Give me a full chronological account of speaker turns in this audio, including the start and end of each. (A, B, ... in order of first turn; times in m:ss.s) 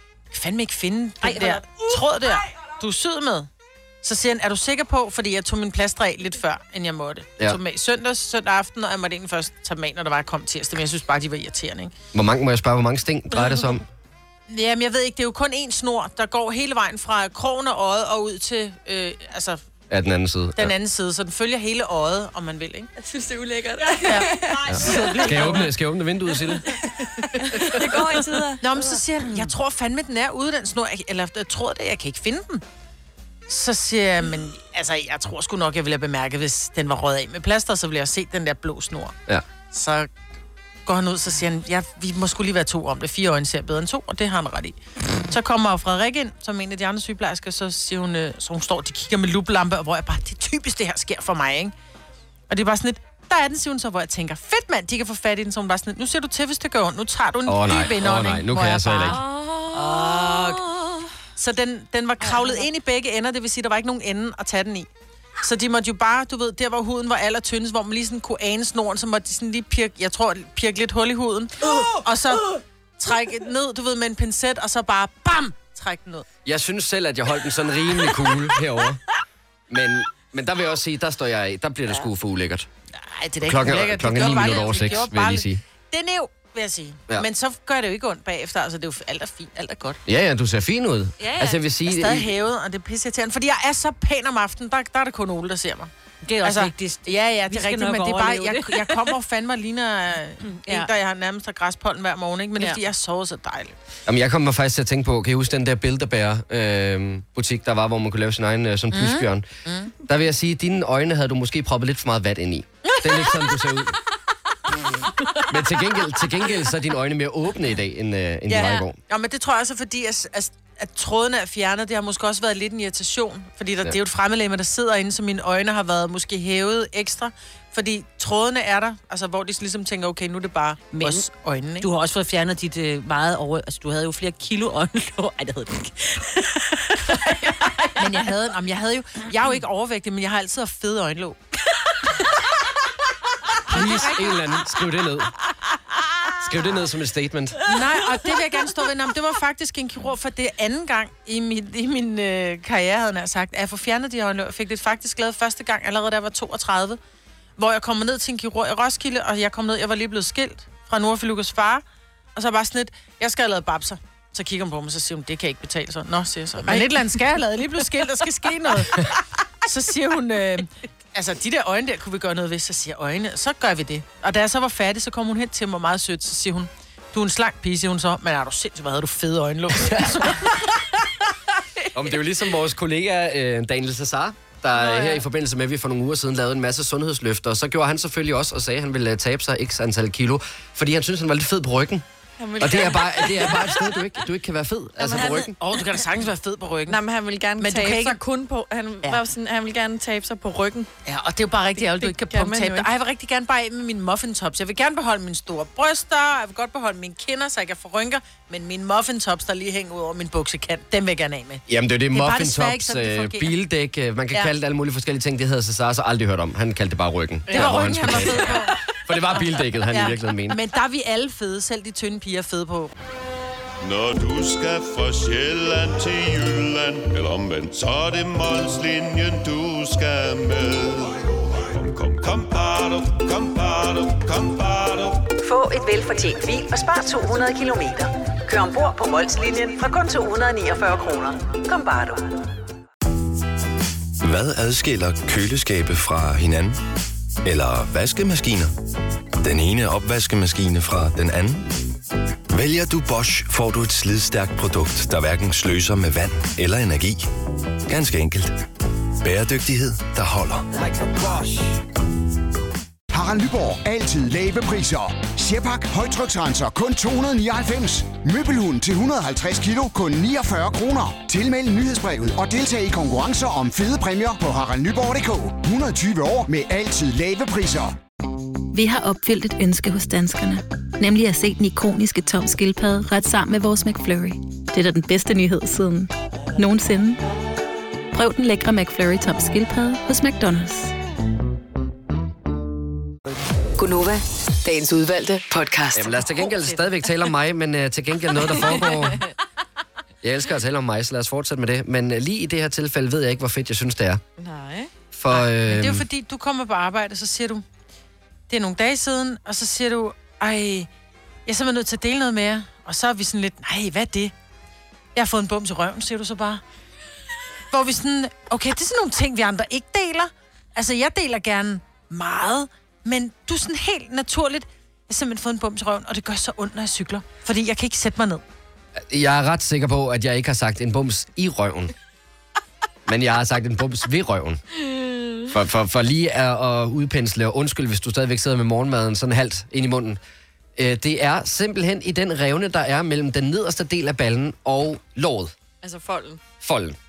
0:00.3-0:03.5 A
0:01.2-0:01.8 B
0:04.0-0:11.9 A
0:12.1-0:13.8 C
0:14.5-0:19.6 A
0:19.9-0:20.7 C
0:20.6-0:22.9 A
0:23.0-0:25.7 D
0:23.9-0:24.4 B
0:24.0-0:25.7 A
0:24.7-0:26.6 C
0:27.0-0:28.5 D
0:27.7-0:28.6 B
0:28.6-0:32.6 A
0:33.5-0:39.2 A
0:39.7-0:40.1 A
0:40.9-0:44.8 A
0:45.3-0:51.7 A
0:52.5-1:00.6 A
0:57.5-0:59.2 C
0:59.1-1:01.0 B
1:01.4-1:04.9 A
1:05.4-1:16.3 A
1:16.4-1:19.0 C
1:19.7-1:22.7 C
1:23.0-1:30.0 A
1:23.4-1:25.6 C
1:30.1-1:32.3 C
1:31.2-1:31.6 B
1:31.9-1:35.9 A
1:36.2-1:39.2 B
1:36.4-1:43.8 A
1:40.4-1:40.9 B
1:44.1-1:49.5 C
1:48.9-1:49.9 A
1:50.1-1:54.0 C
1:52.8-1:53.1 A
1:55.4-1:59.0 C
1:58.5-2:11.9 A
2:10.9-2:11.2 B
2:11.8-2:18.3 B
2:18.0-2:21.4 A
2:23.7-2:25.3 C
2:23.7-2:24.1 A
2:26.4-2:27.6 C
2:27.6-2:37.0 A
2:37.6-2:41.8 A
2:42.4-3:00.6 A
2:46.6-2:47.2 D
3:01.9-3:12.0 C
3:04.7-3:05.2 D
3:12.4-3:13.9 D
3:12.6-3:15.6 C
3:15.0-3:15.5 D
3:15.3-3:17.0 A
3:16.9-3:20.9 D
3:17.6-3:18.2 A
3:21.0-3:33.5 A
3:21.8-3:22.9 D
3:31.7-3:40.6 C
3:37.5-3:38.3 D
3:37.5-3:38.8 A
3:39.9-3:42.9 A
3:43.8-3:55.2 E
3:55.4-4:02.3 F
4:04.2-4:06.8 G
4:07.4-4:08.7 G
4:09.4-4:11.6 G
4:12.5-4:17.3 G
4:17.9-4:18.6 G
4:19.2-4:20.7 G
4:20.9-4:21.5 F
4:23.1-4:38.0 H
4:38.7-4:47.2 I
4:48.1-4:50.9 I
4:53.8-4:56.4 F
4:55.9-4:59.2 C
4:58.6-4:59.3 D
5:00.2-5:04.2 C
5:04.4-5:04.9 D
5:05.1-5:06.1 C
5:05.3-5:07.6 A
5:08.5-5:10.9 A
5:11.5-5:14.3 A
5:15.2-5:16.6 A
5:17.7-5:28.4 A
5:29.0-5:31.9 C
5:33.1-5:34.6 C
5:34.9-5:35.5 D
5:35.5-5:40.2 C
5:40.8-5:45.5 C
5:45.8-5:46.4 D
5:46.6-5:47.0 C